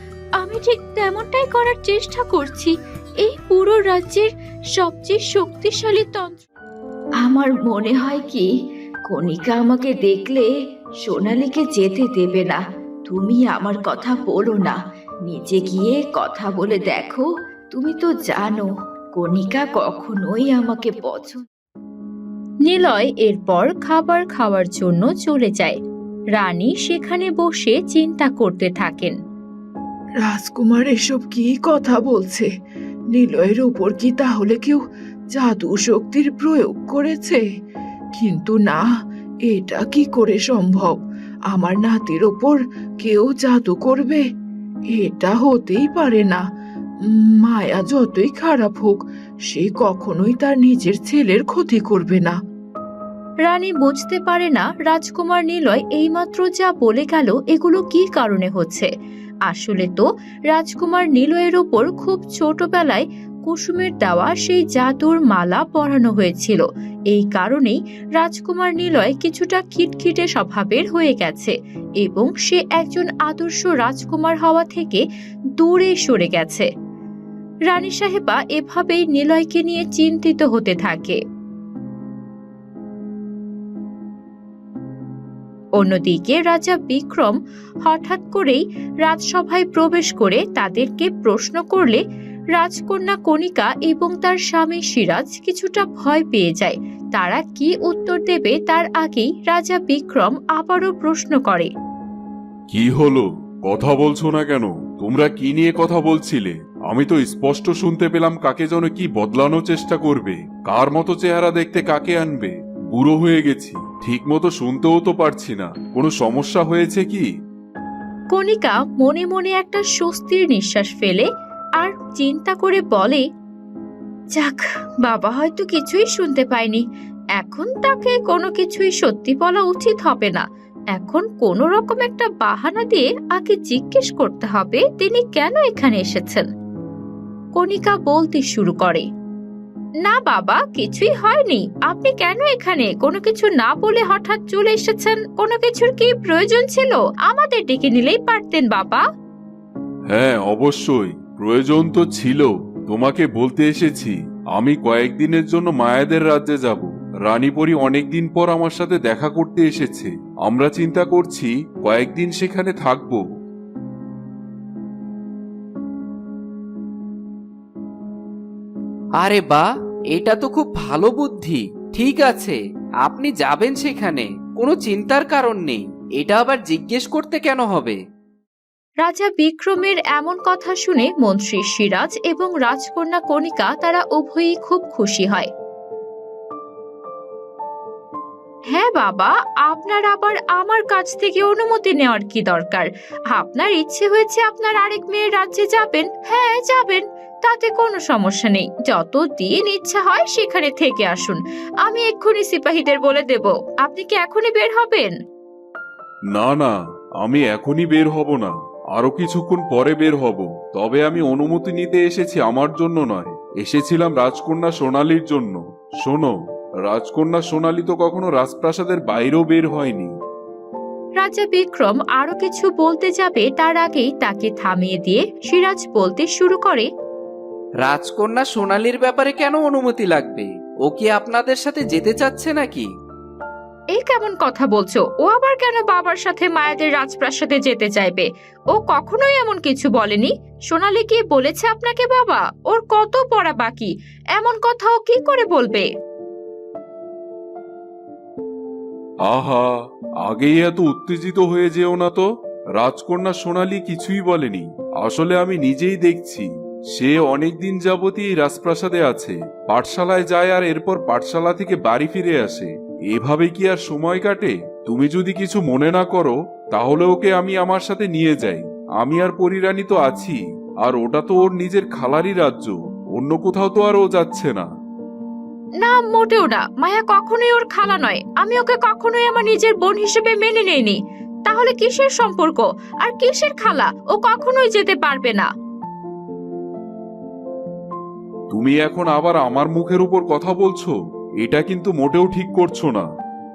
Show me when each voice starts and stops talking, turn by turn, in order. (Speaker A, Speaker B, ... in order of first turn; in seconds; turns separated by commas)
Speaker A: 0.4-6.4, Speaker A: 7.2-8.4, Speaker B: 7.3-8.4, Speaker A: 9.1-10.4, Speaker B: 9.1-10.5, Speaker B: 11.0-12.6, Speaker A: 11.1-12.5, Speaker A: 13.1-14.7, Speaker B: 13.1-14.7, Speaker A: 15.3-17.2, Speaker B: 15.3-17.2, Speaker A: 17.8-18.6, Speaker B: 17.8-18.7, Speaker B: 19.2-21.4, Speaker A: 19.2-21.4, Speaker A: 22.6-25.8, Speaker A: 26.3-29.1, Speaker B: 30.2-32.5, Speaker B: 33.1-34.8, Speaker B: 35.3-37.4, Speaker B: 38.1-38.8, Speaker B: 39.5-41.0, Speaker B: 41.5-44.2, Speaker B: 45.0-46.4, Speaker B: 47.1-52.4, Speaker A: 53.4-58.9, Speaker A: 59.5-75.0, Speaker A: 75.6-76.7, Speaker A: 77.7-81.2, Speaker A: 85.8-92.0, Speaker A: 92.5-101.7, Speaker C: 102.7-117.2, Speaker A: 118.3-121.2, Speaker A: 121.8-123.2, Speaker A: 124.3-126.8, Speaker A: 127.3-136.4, Speaker A: 137.5-139.1, Speaker A: 140.0-149.0, Speaker C: 150.1-163.2, Speaker D: 169.2-169.4, Speaker D: 170.1-171.4, Speaker D: 171.9-177.7, Speaker C: 176.9-177.2, Speaker A: 179.0-185.5, Speaker A: 188.7-205.1, Speaker C: 206.3-216.3, Speaker C: 216.8-220.1, Speaker A: 221.2-226.9, Speaker D: 227.8-232.9, Speaker A: 233.9-245.9, Speaker C: 249.2-274.7, Speaker A: 275.8-285.5, Speaker C: 288.5-293.1